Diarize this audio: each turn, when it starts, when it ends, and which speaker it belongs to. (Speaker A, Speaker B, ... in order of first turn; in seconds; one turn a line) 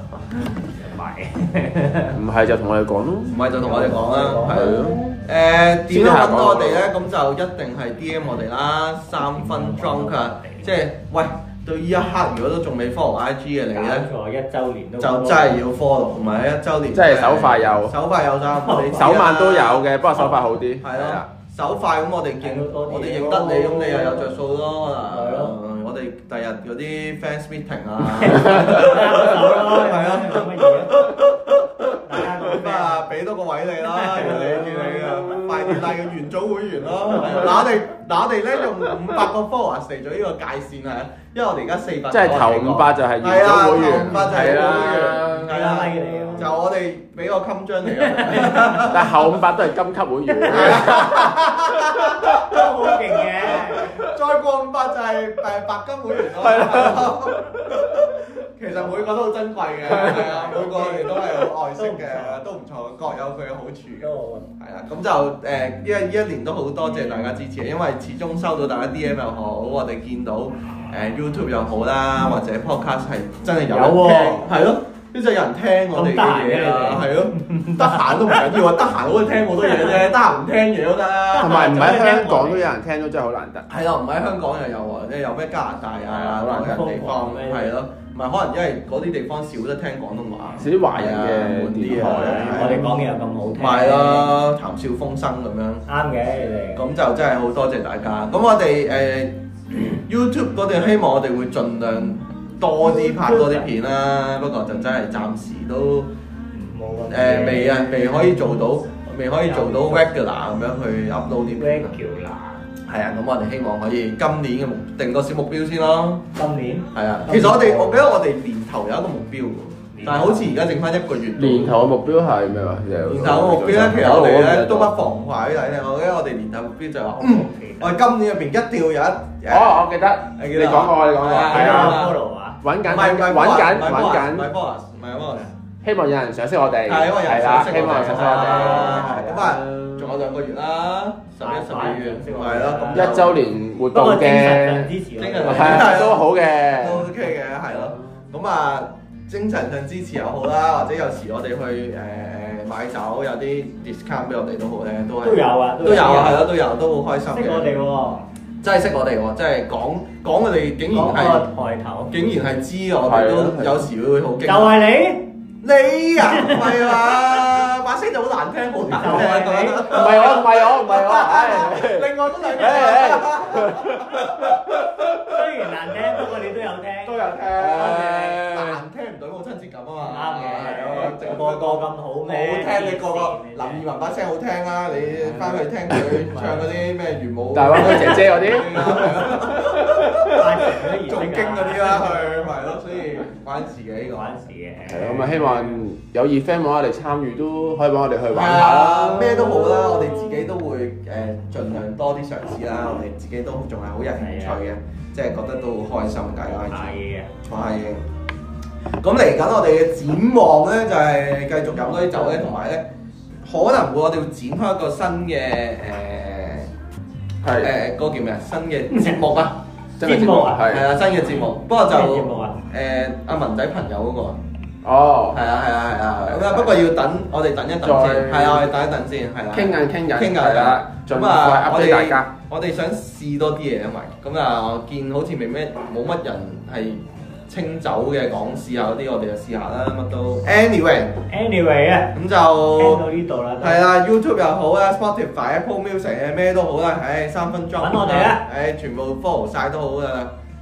Speaker A: 0.6-2.2
Speaker B: 2.1-3.6
Speaker C: 3.3-4.7
Speaker A: 3.6-5.2
Speaker B: 4.4-5.0
Speaker C: 5.2-14.1
Speaker B: 5.9-6.9
Speaker A: 9.2-10.7
Speaker A: 13.7-15.6
Speaker C: 15.0-49.3
Speaker B: 16.9-18.0
Speaker A: 18.5-19.2
Speaker B: 18.9-21.3
Speaker A: 22.4-24.3
Speaker A: 25.1-25.6
Speaker A: 28.1-31.2
Speaker A: 32.0-33.1
Speaker A: 33.8-35.9
Speaker A: 37.1-37.6
Speaker B: 42.1-45.5
Speaker A: 45.0-46.6
Speaker A: 47.9-48.9
Speaker B: 48.9-51.4
Speaker A: 50.3-51.3
Speaker C: 50.5-52.6
Speaker B: 52.0-52.4
Speaker A: 52.3-54.0
Speaker C: 53.5-81.9
Speaker B: 56.4-57.1
Speaker A: 59.9-62.5
Speaker A: 64.0-64.5
Speaker A: 73.7-74.5
Speaker A: 75.9-78.3
Speaker A: 81.3-82.7
Speaker B: 81.4-83.7
Speaker C: 83.7-93.0
Speaker A: 86.1-87.7
Speaker B: 90.6-92.8
Speaker A: 91.9-94.3
Speaker C: 93.6-95.8
Speaker A: 95.8-96.8
Speaker C: 96.8-106.1
Speaker A: 102.8-103.7
Speaker A: 106.5-108.7
Speaker C: 107.1-112.0
Speaker A: 109.4-110.0
Speaker A: 111.5-112.7
Speaker C: 112.8-116.2
Speaker A: 116.3-118.0
Speaker C: 116.9-121.8
Speaker A: 119.9-120.5
Speaker B: 121.3-124.9
Speaker C: 123.0-132.2
Speaker A: 127.2-128.0
Speaker B: 129.5-132.1
Speaker A: 131.4-132.6
Speaker B: 132.6-134.5
Speaker C: 132.8-135.4
Speaker A: 135.2-135.5
Speaker B: 135.8-140.2
Speaker C: 136.9-143.4
Speaker A: 141.4-143.3
Speaker B: 142.9-144.9
Speaker A: 143.9-146.1
Speaker C: 145.2-157.7
Speaker B: 145.4-147.1
Speaker A: 155.2-156.4
Speaker A: 157.3-158.3
Speaker C: 158.6-161.4
Speaker A: 160.9-162.1
Speaker C: 162.1-164.9
Speaker B: 163.0-163.8
Speaker A: 164.4-165.2
Speaker C: 165.6-174.7
Speaker A: 166.2-167.4
Speaker A: 168.9-170.2
Speaker B: 169.9-175.4
Speaker A: 175.2-178.2
Speaker C: 177.0-190.4
Speaker B: 177.5-178.8
Speaker A: 180.0-183.8
Speaker B: 184.9-186.0
Speaker A: 186.0-186.8
Speaker B: 187.5-190.5
Speaker A: 190.3-192.7
Speaker C: 191.0-194.4
Speaker A: 194.1-195.8
Speaker B: 194.8-200.4
Speaker C: 198.3-208.1
Speaker A: 204.2-204.6
Speaker A: 206.7-207.3
Speaker C: 209.0-212.8
Speaker A: 212.0-212.6
Speaker C: 213.4-216.7
Speaker B: 217.4-217.7
Speaker C: 217.6-219.6
Speaker A: 218.9-219.2
Speaker B: 220.0-220.9
Speaker A: 220.0-220.7
Speaker C: 220.6-224.4
Speaker A: 221.3-222.6
Speaker B: 224.8-225.4
Speaker C: 225.3-241.2
Speaker B: 226.2-226.9
Speaker B: 227.8-228.7
Speaker B: 229.5-232.3
Speaker A: 241.3-242.2
Speaker C: 242.1-243.0
Speaker A: 242.7-243.8
Speaker C: 243.6-250.3
Speaker A: 247.8-248.4